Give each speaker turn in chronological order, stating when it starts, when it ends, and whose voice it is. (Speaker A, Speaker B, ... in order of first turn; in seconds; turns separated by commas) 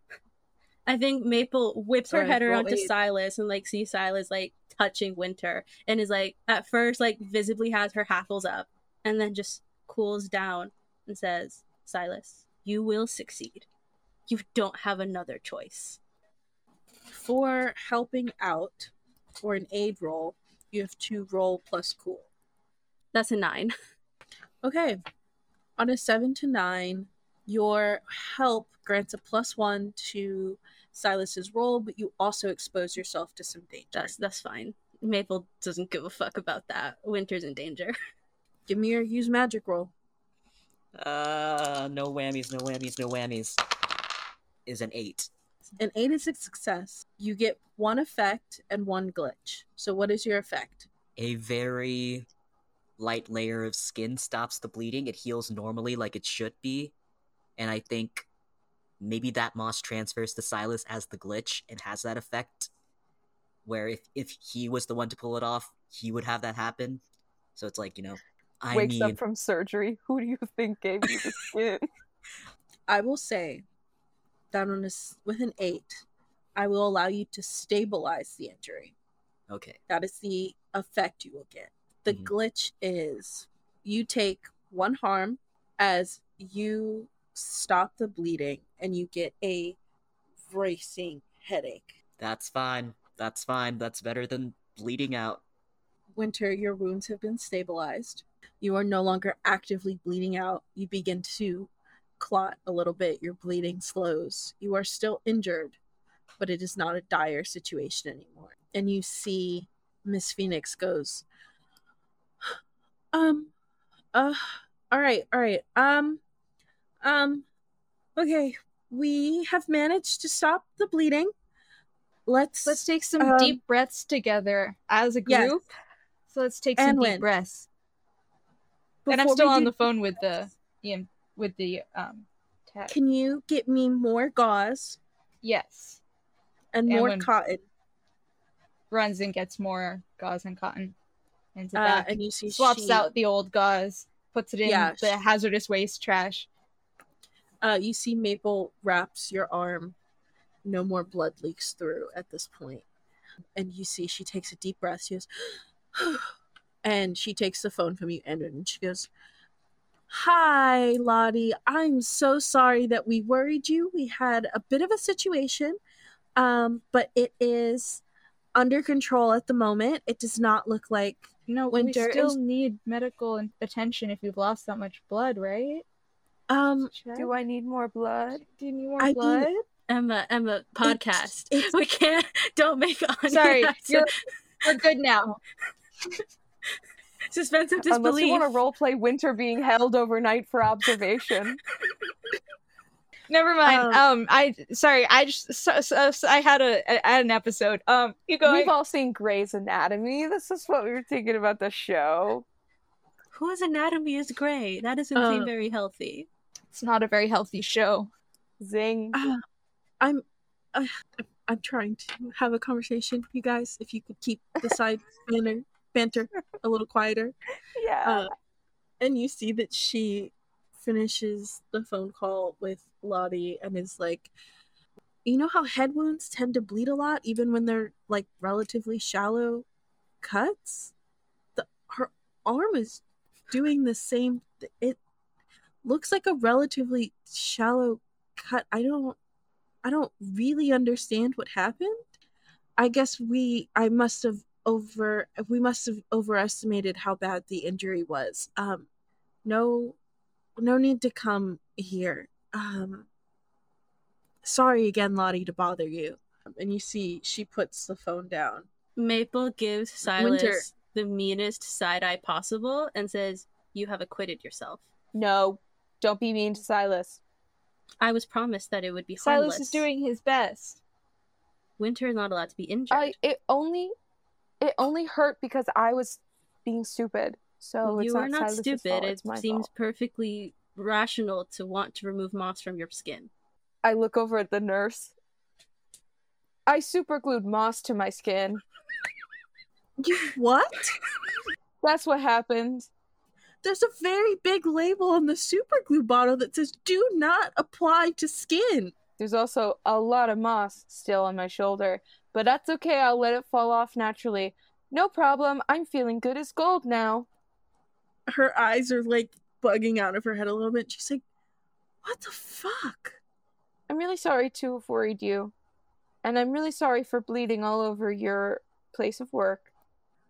Speaker A: 0.9-13.7, Speaker B: 2.1-2.9, Speaker A: 14.3-16.0, Speaker B: 17.1-22.3, Speaker A: 23.1-23.7, Speaker B: 24.6-25.0, Speaker B: 25.8-34.1, Speaker A: 33.9-37.9, Speaker B: 38.7-39.9, Speaker C: 41.0-43.6, Speaker C: 44.7-45.3, Speaker B: 45.8-50.9, Speaker C: 51.2-52.3, Speaker C: 53.0-56.9, Speaker C: 57.6-58.3, Speaker C: 59.0-62.7, Speaker C: 63.6-67.0, Speaker C: 67.6-69.2, Speaker D: 68.7-71.9, Speaker B: 72.9-73.7, Speaker B: 74.5-76.0, Speaker B: 76.6-78.9, Speaker C: 79.5-79.8, Speaker B: 79.9-89.8, Speaker B: 90.5-92.0, Speaker C: 92.2-95.4, Speaker B: 96.2-105.8, Speaker B: 106.4-111.3, Speaker B: 113.1-113.5, Speaker B: 114.1-116.2, Speaker B: 117.0-117.5, Speaker B: 118.2-121.3, Speaker B: 122.3-123.6, Speaker E: 122.7-125.7, Speaker B: 125.3-125.6, Speaker E: 126.3-127.7, Speaker B: 126.8-127.3, Speaker B: 129.1-129.9, Speaker E: 129.1-132.9, Speaker B: 132.9-135.0, Speaker E: 135.4-136.0, Speaker B: 136.7-137.6, Speaker E: 136.9-137.3, Speaker E: 138.9-140.9, Speaker E: 141.6-146.5, Speaker B: 141.8-143.1, Speaker B: 144.6-145.2, Speaker B: 147.6-150.0, Speaker B: 150.7-152.8, Speaker B: 153.6-156.3, Speaker B: 156.8-159.1, Speaker B: 160.1-165.8, Speaker B: 166.4-168.0, Speaker B: 168.6-172.4, Speaker E: 171.5-175.9, Speaker B: 176.5-177.2, Speaker D: 177.2-178.4, Speaker E: 178.4-179.5, Speaker B: 179.0-179.6, Speaker A: 179.9-184.2, Speaker B: 180.8-181.7, Speaker E: 183.3-184.1, Speaker E: 184.6-185.4, Speaker A: 187.3-188.5, Speaker D: 187.9-191.6, Speaker E: 193.3-198.7, Speaker B: 193.6-194.1, Speaker D: 198.4-202.4, Speaker A: 203.3-206.3, Speaker B: 205.2-205.5, Speaker E: 206.7-208.1, Speaker D: 208.6-209.2, Speaker B: 209.1-209.4, Speaker B: 210.0-217.4, Speaker D: 217.8-218.3, Speaker B: 218.0-218.3, Speaker B: 219.0-224.3, Speaker B: 225.2-229.7, Speaker B: 230.2-230.9, Speaker B: 231.6-235.0, Speaker B: 235.8-239.2, Speaker B: 239.8-242.1, Speaker B: 242.8-248.9, Speaker B: 249.4-250.0, Speaker B: 250.6-253.1, Speaker B: 254.4-258.7, Speaker A: 259.0-264.9, Speaker B: 260.0-260.7, Speaker D: 265.1-267.2, Speaker A: 268.0-269.9, Speaker E: 269.2-270.8, Speaker A: 271.8-273.2, Speaker D: 272.9-273.9, Speaker D: 274.6-279.7, Speaker A: 277.8-283.3, Speaker D: 283.8-285.1, Speaker D: 286.7-288.6, Speaker B: 290.0-291.0, Speaker D: 291.8-292.9, Speaker B: 293.6-298.9, Speaker D: 299.2-307.3, Speaker B: 308.3-311.2, Speaker B: 312.0-313.2, Speaker D: 313.9-315.5, Speaker D: 316.2-319.7